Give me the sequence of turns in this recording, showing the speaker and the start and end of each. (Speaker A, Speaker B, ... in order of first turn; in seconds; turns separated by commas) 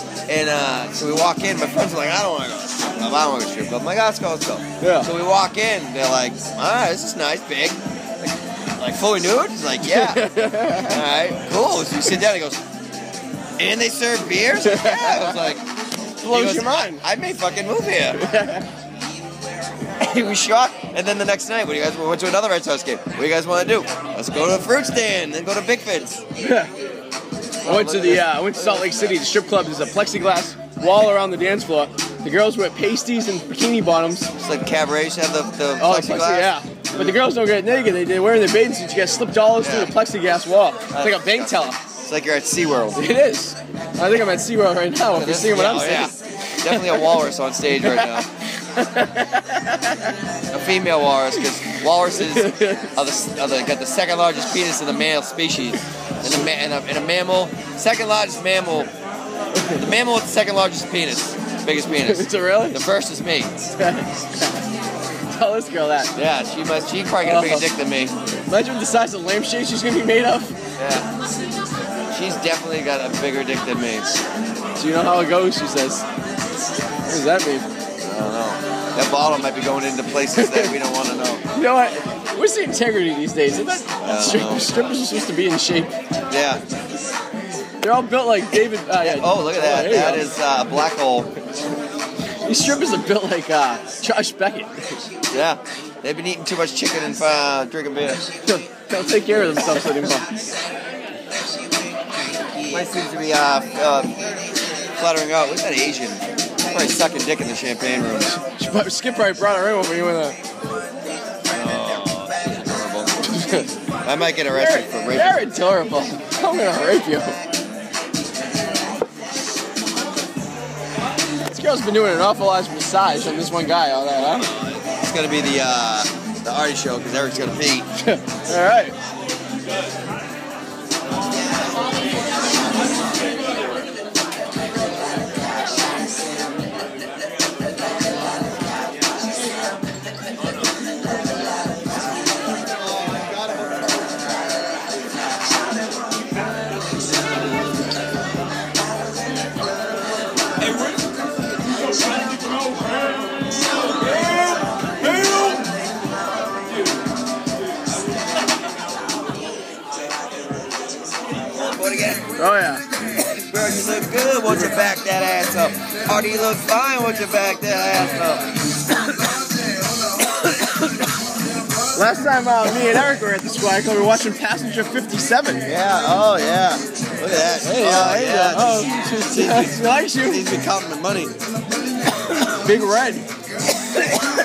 Speaker A: 0.3-7.8, Speaker B: 4.8-5.1, Speaker A: 8.8-12.6, Speaker B: 9.8-11.0, Speaker A: 13.6-15.6, Speaker B: 14.7-15.5, Speaker A: 16.2-18.2, Speaker B: 16.2-17.0, Speaker B: 18.2-18.6, Speaker A: 20.0-26.2, Speaker B: 26.4-26.7, Speaker A: 27.6-29.2, Speaker B: 27.6-34.3, Speaker A: 34.4-37.2, Speaker B: 35.8-41.8, Speaker A: 39.6-39.9, Speaker A: 40.9-43.0, Speaker B: 43.0-46.1, Speaker A: 45.1-48.3, Speaker B: 46.7-47.0, Speaker B: 48.8-49.9, Speaker A: 50.5-58.9, Speaker B: 52.2-52.9, Speaker A: 59.8-63.5, Speaker B: 62.1-62.8, Speaker B: 63.8-64.6, Speaker B: 65.3-66.1, Speaker A: 66.2-68.1, Speaker B: 67.2-67.7, Speaker B: 68.5-70.5, Speaker A: 70.8-71.1, Speaker A: 72.1-74.1, Speaker B: 74.8-76.0, Speaker B: 77.1-77.7, Speaker A: 78.0-81.4, Speaker B: 80.4-80.7, Speaker B: 81.5-85.9, Speaker A: 84.0-84.7, Speaker A: 86.3-86.6, Speaker B: 87.8-90.3, Speaker A: 89.0-91.3, Speaker B: 92.5-94.7, Speaker A: 95.3-98.2, Speaker B: 98.5-100.3, Speaker A: 102.7-104.1, Speaker A: 105.0-108.3, Speaker B: 108.4-110.4, Speaker A: 111.5-113.1, Speaker B: 113.3-113.7, Speaker A: 114.0-115.4, Speaker B: 114.5-117.4, Speaker B: 121.5-124.5, Speaker A: 124.3-127.9, Speaker B: 128.0-128.9, Speaker A: 161.6-162.3, Speaker B: 162.4-162.8, Speaker A: 163.3-168.4, Speaker B: 172.0-175.7, Speaker A: 175.7-181.3, Speaker B: 177.6-180.4, Speaker B: 182.6-183.2